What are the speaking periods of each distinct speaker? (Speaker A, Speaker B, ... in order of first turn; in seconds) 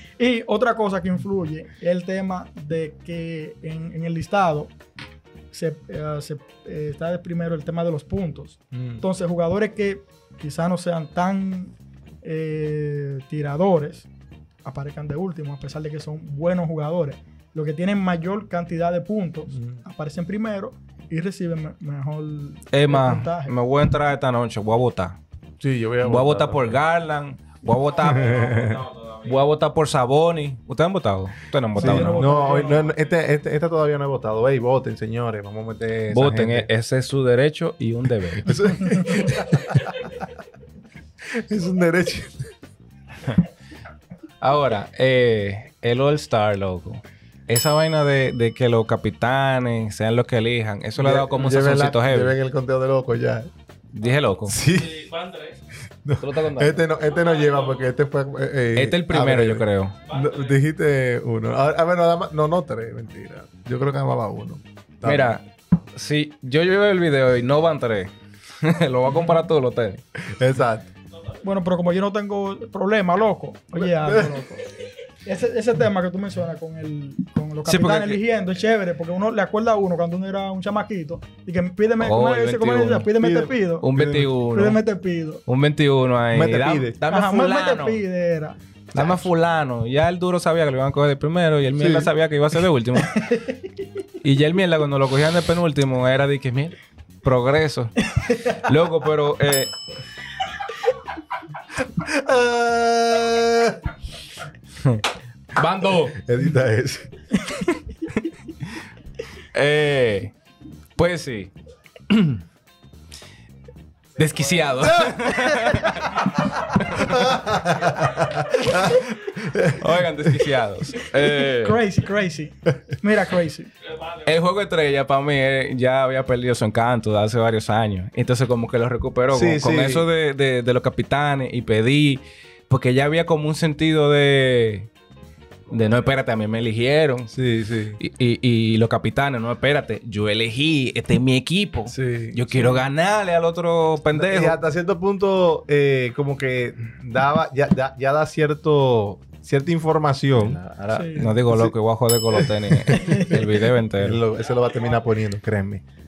Speaker A: 0.2-4.7, 5.5-14.1, 14.7-23.5, 31.8-32.9, 71.4-74.7, 75.2-83.9, 84.5-85.4, 87.1-88.6, 93.1-93.6, 121.4-123.7, 150.9-151.4, 152.9-153.3
Speaker B: 8.7-9.1, 19.5-19.8, 25.6-26.8, 28.1-28.8, 31.8-36.7, 38.4-40.1, 41.3-42.5, 51.0-53.5, 54.5-55.1, 56.0-65.3, 70.3-70.9, 73.8-74.4, 83.2-84.3, 86.3-87.0, 88.9-89.3, 91.8-92.1, 102.0-103.8, 106.0-107.1, 114.8-115.9, 116.9-120.5, 129.3-130.1, 137.3-138.0, 141.9-142.8, 144.1-150.6, 151.2-151.8, 152.3-155.8
Speaker C: 22.7-25.2, 26.0-28.7, 29.2-32.4, 36.1-39.0, 44.4-52.4, 53.9-54.6, 56.2-56.8, 58.8-60.0, 65.0-68.1, 68.6-70.0, 77.7-78.2, 82.0-83.1, 83.8-84.8, 85.5-88.0, 88.9-93.2, 94.2-99.7, 105.5-106.2, 109.5-110.3, 111.0-111.5, 112.1-112.4, 114.2-116.2, 116.7-117.2, 119.7-121.8, 124.2-134.9, 135.7-137.3, 138.0-144.6, 150.3-154.2
Speaker D: 27.8-29.4, 32.4-33.1, 54.6-55.6, 57.0-57.9, 60.1-60.6, 123.8-124.3, 154.3-155.2